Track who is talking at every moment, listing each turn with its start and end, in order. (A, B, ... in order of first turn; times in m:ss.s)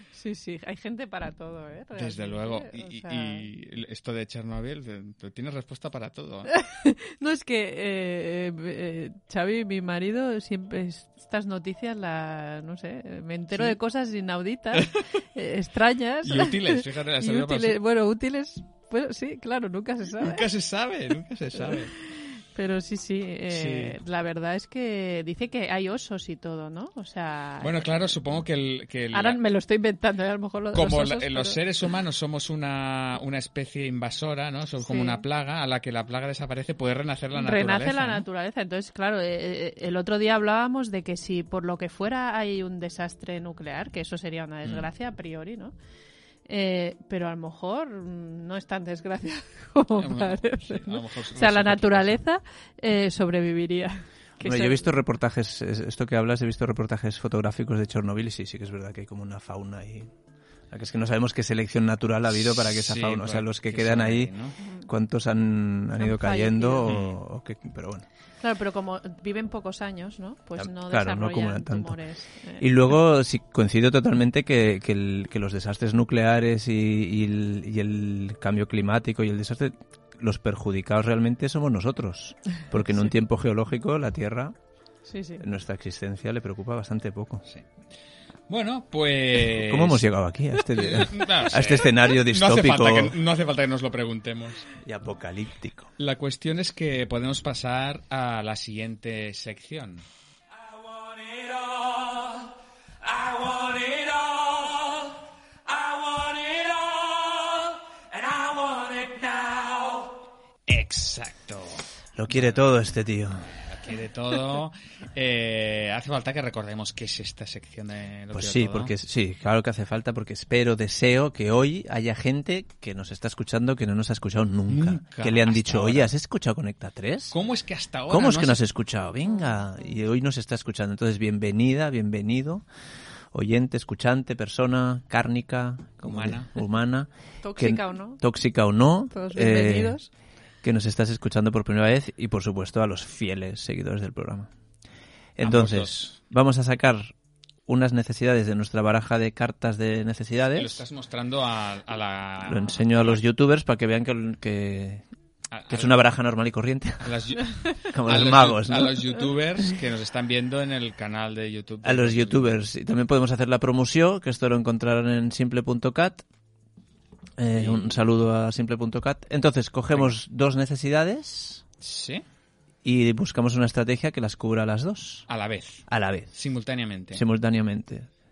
0:00.1-0:03.4 A
0:02.0-0:06.5 B
0:06.5-0:20.4 A
0:16.2-0:17.8 B
0:20.2-0:21.9 B
0:21.6-0:27.8 A
0:23.5-0:24.0 B
0:27.6-0:29.4 B
0:29.1-0:31.6 A
0:30.7-0:38.2 B
0:34.8-0:35.2 A
0:37.4-0:45.7 A
0:46.5-0:54.9 A
0:49.9-0:52.1 B
0:54.4-1:00.1 C
1:00.7-1:04.3 C
1:02.3-1:04.5 B
1:04.6-1:04.9 A
1:04.8-1:08.0 C
1:06.0-1:06.9 A
1:06.8-1:07.1 B
1:08.4-1:12.7 A
1:10.6-1:12.0 C
1:12.6-1:24.5 C
1:25.0-1:25.4 A
1:25.4-1:27.4 C
1:28.5-1:30.0 B
1:29.6-1:33.2 C
1:30.7-1:34.7 B
1:34.8-1:35.9 C
1:36.0-1:40.0 B
1:41.0-1:42.4 B
1:43.0-1:45.1 B
1:45.7-1:50.1 B
1:50.7-1:52.8 B
1:52.2-1:53.5 C
1:53.4-1:58.9 B
1:58.3-2:07.4 C
2:04.7-2:06.1 B
2:07.3-2:08.6 B
2:08.1-2:12.6 C
2:09.2-2:10.0 A
2:13.3-2:20.0 C
2:16.0-2:16.5 B
2:17.4-2:18.2 A
2:19.1-2:20.1 A
2:20.6-2:24.5 C
2:25.4-2:27.1 C
2:25.4-2:26.1 B
2:27.7-2:30.8 C
2:30.5-2:33.2 B
2:32.4-2:35.0 C
2:35.5-2:36.0 B
2:35.7-2:37.2 C
2:37.0-2:42.5 B
2:37.9-2:39.0 C
2:41.8-2:46.2 C
2:47.4-2:51.6 C
2:47.6-2:47.9 B
2:51.8-2:52.2 B
2:52.8-2:55.2 C
2:55.3-2:57.2 B
2:55.9-2:56.3 C
2:57.1-2:58.1 C